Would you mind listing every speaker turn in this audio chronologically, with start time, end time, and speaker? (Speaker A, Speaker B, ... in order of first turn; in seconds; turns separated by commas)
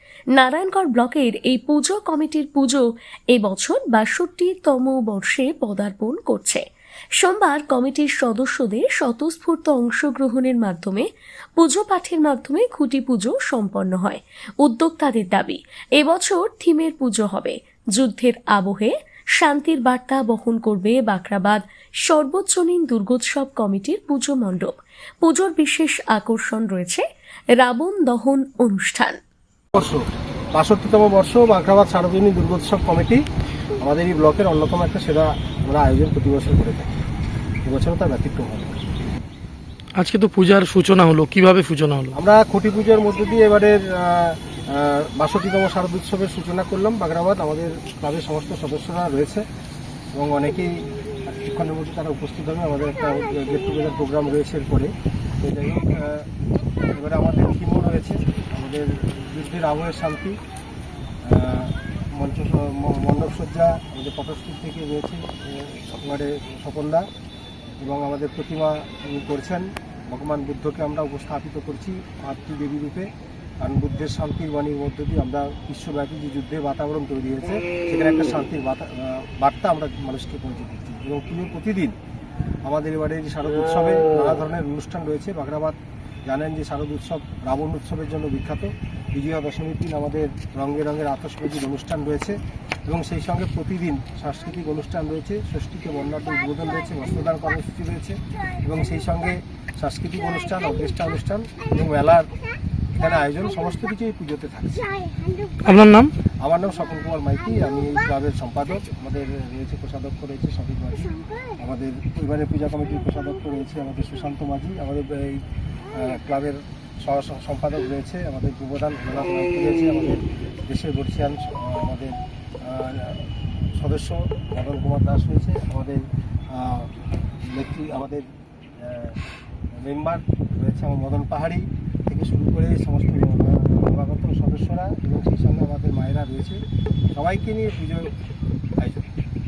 Speaker A: 0.3-6.6, Speaker A: 7.2-11.1, Speaker A: 11.6-27.0, Speaker A: 27.6-29.2, Speaker B: 29.7-33.2, Speaker B: 33.8-37.0, Speaker B: 37.6-38.8, Speaker C: 40.0-42.1, Speaker B: 42.1-49.4, Speaker B: 50.1-56.3, Speaker B: 56.9-60.4, Speaker B: 61.2-67.1, Speaker B: 67.8-82.0, Speaker B: 82.6-102.3, Speaker B: 103.0-104.9, Speaker C: 105.6-106.1, Speaker B: 106.4-126.9, Speaker B: 127.4-129.2, Speaker B: 129.7-136.6, Speaker B: 137.1-138.1, Speaker B: 138.8-139.1